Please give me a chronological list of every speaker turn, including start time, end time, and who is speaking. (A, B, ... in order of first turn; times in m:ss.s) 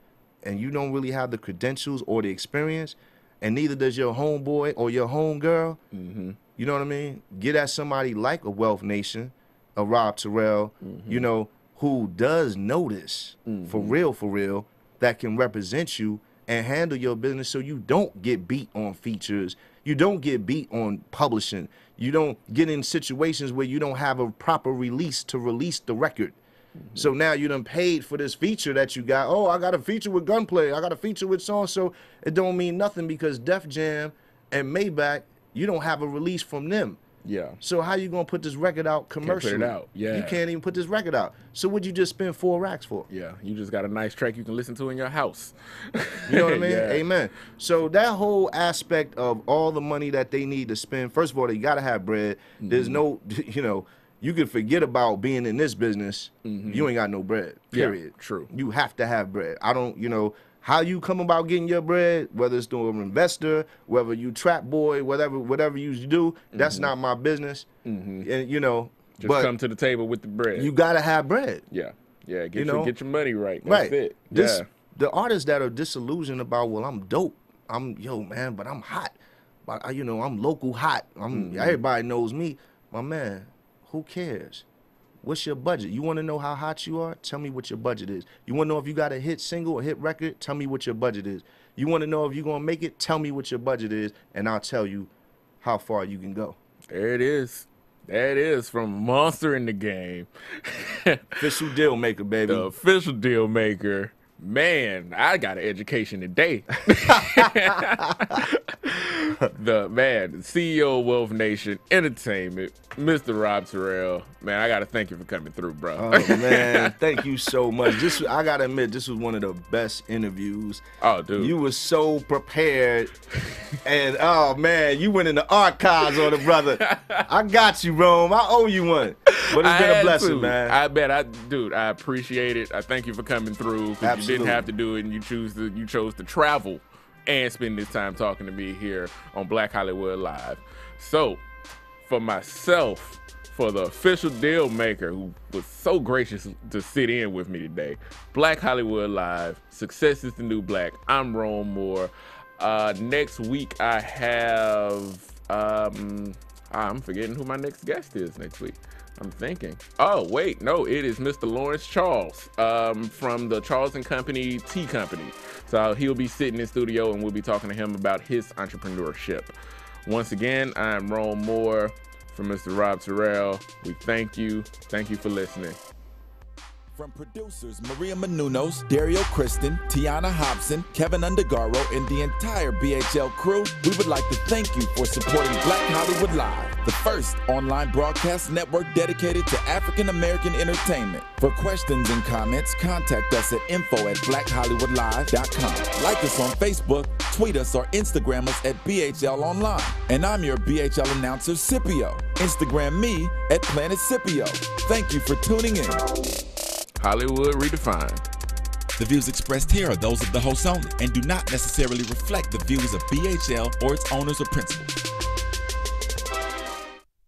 0:00.4-0:05.8 A
0:05.9-0:06.4 B
0:06.6-0:26.4 A
0:10.8-0:11.3 B
0:13.5-0:14.0 B
0:26.9-0:37.0 A
0:37.2-0:37.6 B
0:37.6-0:43.1 A
0:39.2-0:40.4 B
0:43.1-0:47.0 B
0:46.3-1:07.7 A
0:52.6-0:53.0 B
0:56.4-0:56.9 B
0:57.7-0:58.5 B
1:06.5-1:06.9 B
1:07.8-1:08.3 B
1:08.2-1:09.5 A
1:09.2-1:10.7 B
1:10.5-1:11.6 A
1:11.7-1:14.7 B
1:12.5-1:12.9 A
1:13.6-1:24.6 A
1:21.3-1:21.8 B
1:25.2-1:35.1 A
1:35.6-1:36.6 A
1:36.9-1:41.5 B
1:41.4-1:42.7 A
1:42.5-1:57.0 B
1:56.0-2:00.8 A
1:57.9-1:58.2 B
2:01.0-2:01.6 B
2:01.3-2:03.1 A
2:03.8-2:10.8 A
2:06.8-2:07.3 B
2:09.3-2:21.4 B
2:14.0-2:14.7 A
2:22.0-2:49.5 B
2:50.0-2:55.8 B
2:56.9-3:26.0 C
3:27.0-3:28.2 B
3:29.0-3:34.9 C